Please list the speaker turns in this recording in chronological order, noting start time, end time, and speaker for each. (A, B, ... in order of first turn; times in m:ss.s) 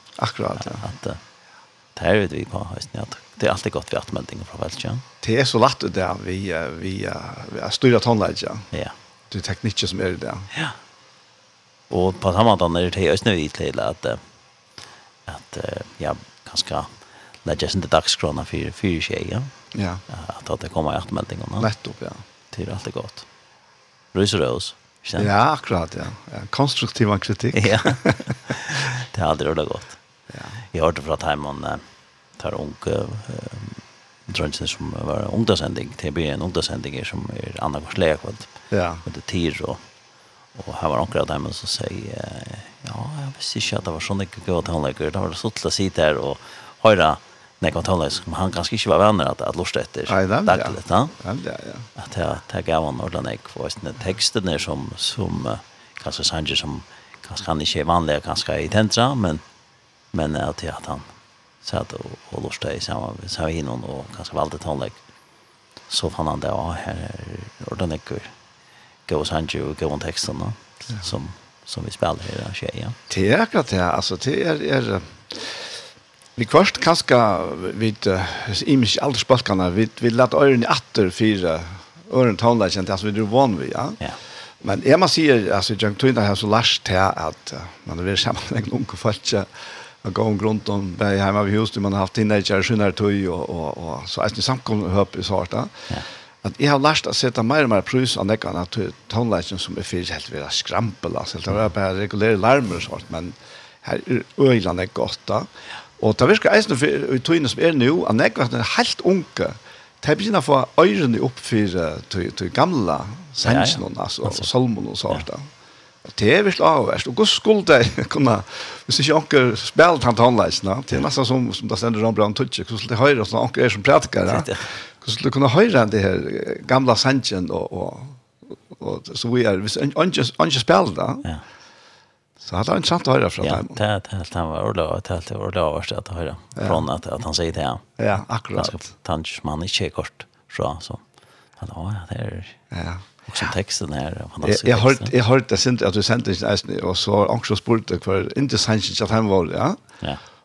0:00.2-0:00.8 A
0:00.6-0:01.2 B
0:01.9-0:05.0 B
0:05.2-0:08.7 A
0:09.3-0:10.5 A
0:11.9-0:14.2 B
0:15.3-0:16.9 B
0:17.4-0:19.5 B
0:19.7-0:20.0 A
0:20.1-0:21.7 B
0:21.6-0:22.2 A
0:22.5-0:23.2 B
0:24.1-0:25.3 B
0:25.2-0:28.5 A
0:27.5-0:30.0 B
0:30.3-0:30.6 A
0:30.7-0:31.8 B
0:32.4-0:38.5 B
0:38.7-0:39.0 A
0:39.0-0:39.8 B
0:40.5-0:51.1 B
0:50.1-0:51.9 A
0:52.0-0:59.4 B
1:00.1-1:01.0 B
1:01.6-1:05.0 B
1:05.9-1:08.3 B
1:09.0-1:13.0 B
1:13.1-1:15.7 A
1:16.4-1:24.0 A
1:24.6-1:35.8 A
1:36.4-1:45.5 A
1:46.0-1:55.5 A
1:53.4-1:54.5 B
1:56.0-2:11.2 A
2:04.3-2:04.7 B
2:12.4-2:13.8 A
2:13.4-2:17.9 B
2:16.6-2:16.8 A
2:18.0-2:18.8 A
2:18.5-2:21.0 B
2:21.6-2:22.6 B
2:22.7-2:23.0 A
2:23.3-2:25.1 B
2:24.4-2:29.8 A